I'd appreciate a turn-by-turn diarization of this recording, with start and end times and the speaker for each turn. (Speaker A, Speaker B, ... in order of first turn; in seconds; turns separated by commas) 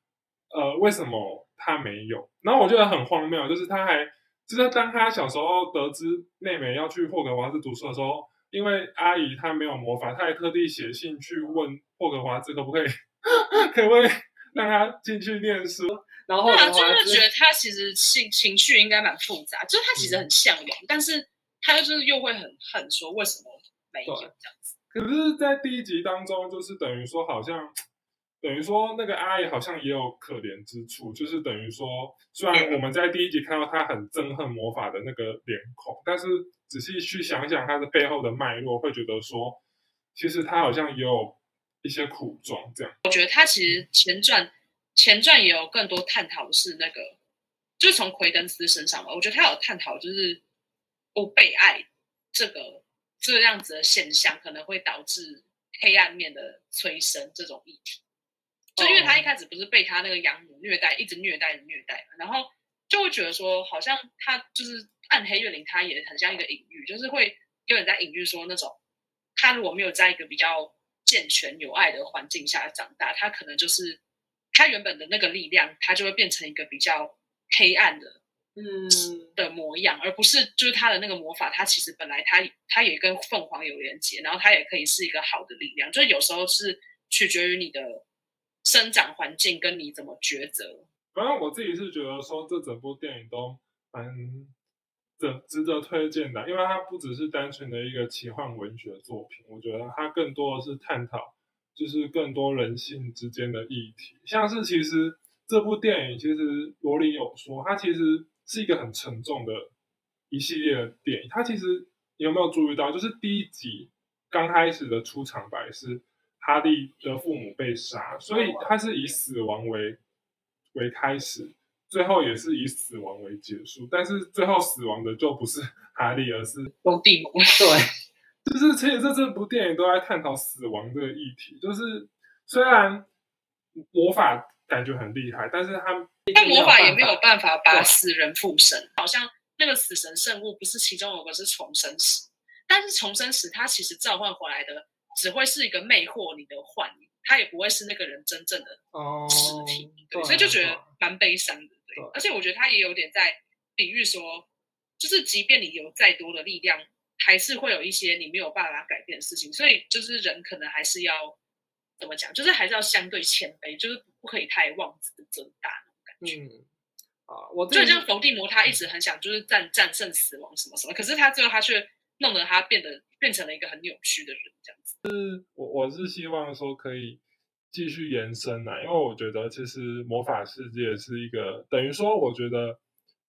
Speaker A: 0.5-15.9, Speaker B: 16.2-17.2, Speaker C: 16.4-24.7, Speaker A: 24.9-27.8, Speaker A: 28.4-39.6, Speaker A: 40.1-42.9, Speaker C: 43.0-47.1, Speaker C: 47.8-50.4, Speaker C: 51.1-58.0, Speaker B: 58.8-59.3, Speaker C: 58.8-68.8, Speaker C: 69.3-74.0, Speaker C: 74.5-78.2, Speaker B: 78.6-79.3, Speaker C: 79.3-88.0, Speaker C: 88.6-90.8, Speaker A: 91.1-94.5, Speaker A: 95.2-109.7, Speaker A: 110.3-120.0, Speaker A: 120.7-126.7, Speaker C: 126.8-127.8, Speaker B: 127.6-127.9, Speaker A: 128.4-133.1, Speaker A: 133.8-136.1, Speaker B: 136.3-137.2, Speaker C: 136.3-154.5, Speaker B: 148.9-150.9, Speaker C: 155.0-161.3, Speaker C: 162.0-166.4, Speaker B: 166.2-166.7, Speaker B: 167.3-168.1, Speaker C: 167.7-174.9, Speaker A: 175.0-182.8